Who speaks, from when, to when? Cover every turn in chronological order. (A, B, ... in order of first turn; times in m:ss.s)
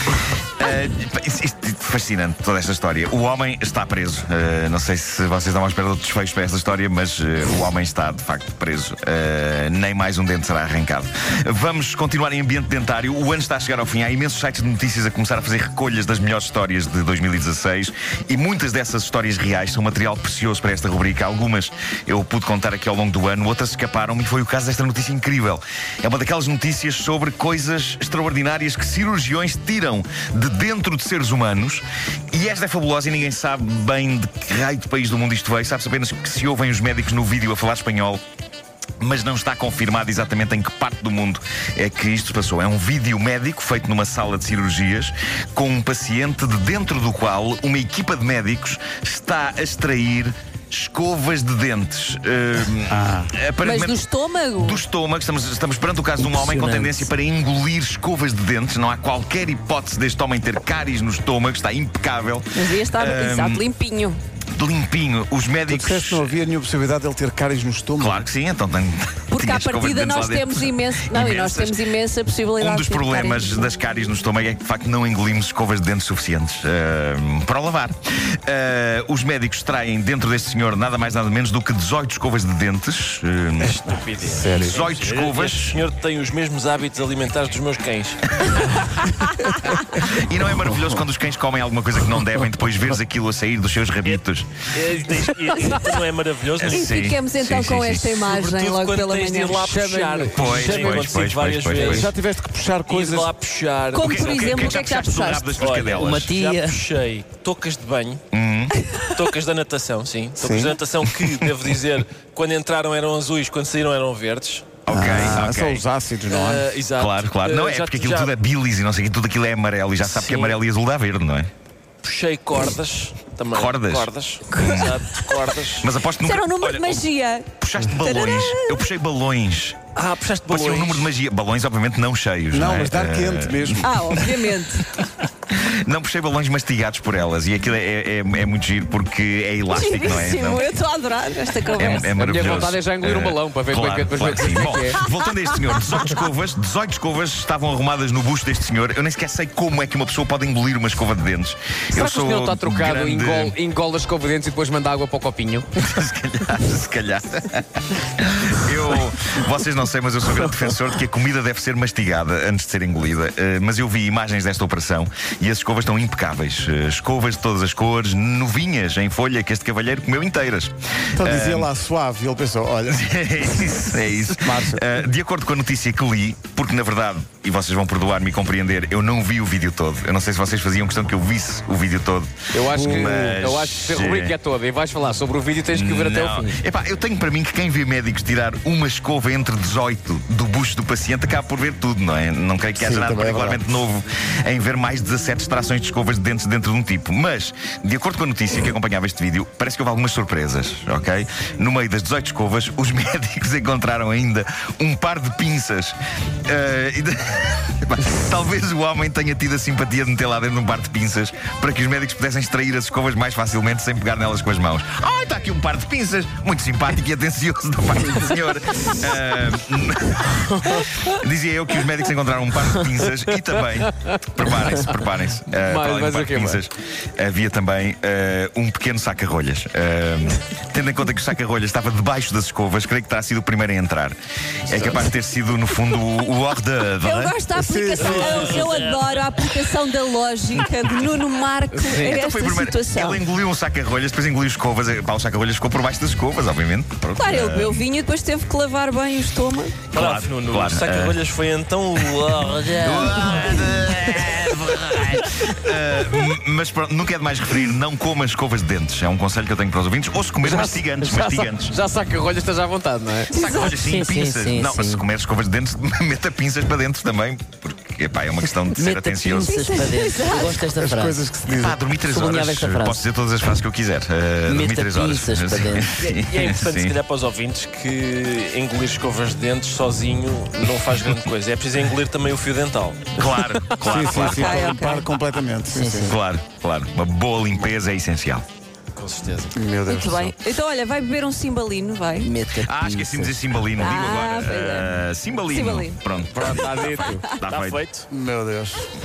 0:00.6-0:38.2 A
0:39.0-0:54.0 A
0:52.9-0:53.3 B
0:53.6-0:54.8 C
0:54.6-1:03.6 A
0:56.2-0:57.1 D
1:02.5-1:04.2 C
1:04.6-1:06.4 A
1:05.7-1:08.2 B
1:08.0-1:11.8 A
1:09.3-1:13.6 C
1:12.6-1:23.8 A
1:23.6-1:28.4 E
1:24.3-1:24.8 B
1:24.6-1:25.8 A
1:28.4-1:28.8 A
1:29.5-1:29.7 C
1:30.0-1:34.5 A
1:34.0-1:36.9 E
1:36.6-1:38.2 A
1:36.7-1:39.7 C
1:38.3-1:42.1 E
1:39.6-1:41.1 F
1:40.3-1:42.1 A
1:41.7-1:43.3 B
1:42.8-1:44.8 E
1:43.9-1:45.6 C
1:43.9-1:46.3 A
1:45.6-1:48.2 E
1:46.0-1:46.8 D
1:48.3-1:48.7 A
1:49.1-1:54.7 E
1:50.4-1:50.8 B
1:54.8-1:55.8 A
1:54.9-1:56.7 B
1:56.3-1:58.3 E
1:57.0-2:01.5 A
2:00.0-2:00.6 E
2:02.0-2:05.9 E
2:03.5-2:05.0 A
2:05.8-2:07.0 A
2:06.2-2:08.8 C
2:07.6-2:09.8 A
2:09.9-2:11.1 E
2:10.5-2:20.7 A
2:12.5-2:13.9 B
2:13.8-2:14.9 C
2:19.7-2:22.1 C
2:21.7-2:33.6 A
2:22.1-2:25.0 F
2:31.9-2:35.7 F
2:35.8-2:51.7 A
2:51.2-2:54.8 B
2:52.9-3:04.4 A
3:02.5-3:06.6 F
3:02.7-3:03.4 B
3:05.7-3:57.4 A
3:12.8-3:13.6 B
3:45.5-3:46.6 F
3:57.0-4:03.2 C
3:57.5-3:58.8 B
3:58.1-3:59.2 D
4:01.7-4:02.2 F
4:02.0-4:07.8 A
4:07.2-4:09.8 C
4:09.9-4:13.4 E
4:09.9-4:11.2 A
4:12.0-4:21.8 A
4:20.4-4:23.8 F
4:23.3-4:23.7 C
4:23.3-4:29.6 A
4:23.8-4:25.0 D
4:28.7-4:31.2 D
4:29.3-4:30.6 C
4:30.7-4:32.0 B
4:31.4-4:37.0 A
4:32.1-4:33.0 D
4:34.5-4:35.9 D
4:36.0-4:44.7 E
4:43.2-4:44.7 A
4:43.8-4:46.0 B
4:44.3-4:45.2 C
4:45.7-4:46.2 D
4:46.0-4:48.4 A
4:49.0-4:49.5 E
4:49.5-4:50.3 B
4:49.8-4:52.3 C
4:52.2-4:53.4 D
4:52.6-4:57.8 A
4:53.8-4:54.9 C
4:55.5-4:56.0 C
4:56.3-4:57.2 F
4:56.5-4:57.3 C
4:56.5-4:58.0 E
4:58.1-4:58.9 B